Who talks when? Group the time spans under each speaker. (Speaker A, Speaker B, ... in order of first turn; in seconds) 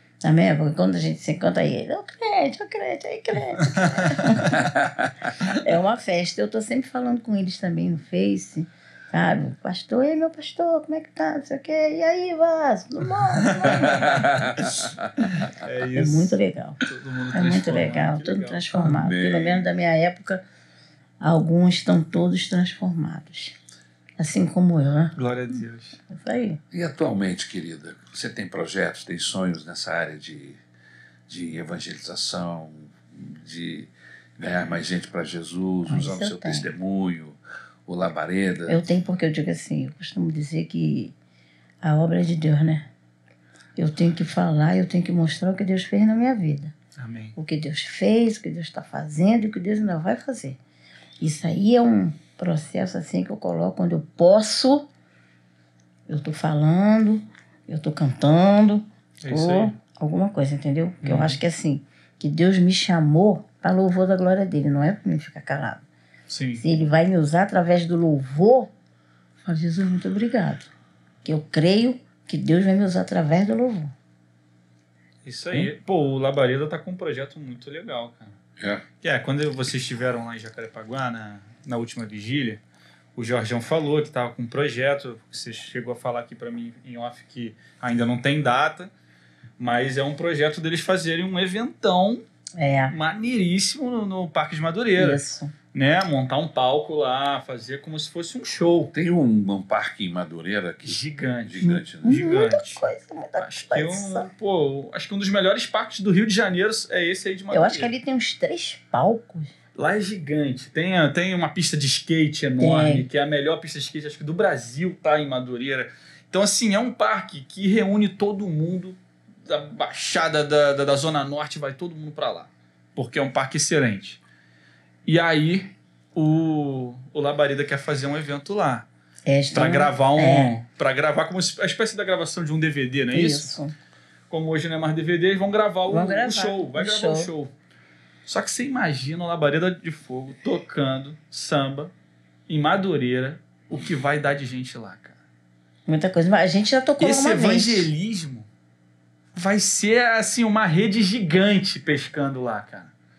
Speaker A: 0.2-4.7, 5.4-14.3, 15.9-20.4, 21.2-23.6, 24.2-25.1, 26.1-26.6, 35.9-36.7, 38.7-41.1, 41.8-42.9, 43.8-46.7, 47.3-50.6, 51.2-54.9, 56.1-65.8, 66.6-68.7, 69.4-70.7, 71.2-73.9, 92.6-93.0, 95.0-95.5, 101.6-104.3, 107.5-109.5, 112.6-113.0, 129.3-130.5, 133.1-133.7, 135.9-137.3, 145.8-147.9
Speaker B: 3.7-4.5, 13.4-14.7, 15.3-18.9, 25.1-26.0, 47.0-47.3, 59.2-59.7, 61.0-61.4, 66.3-66.6, 75.2-78.4, 79.0-82.6, 83.2-88.9, 89.6-92.2, 92.9-95.2, 95.7-98.9, 100.8-102.8, 103.4-107.9, 109.8-124.2, 125.0-128.9, 129.5-133.5, 134.3-137.5, 138.2-141.9, 142.5-145.2, 147.0-148.5, 149.3-152.9
Speaker C: 4.5-5.1, 13.7-15.1, 18.9-19.6, 26.7-30.6, 31.3-38.8, 78.6-78.8, 98.9-102.2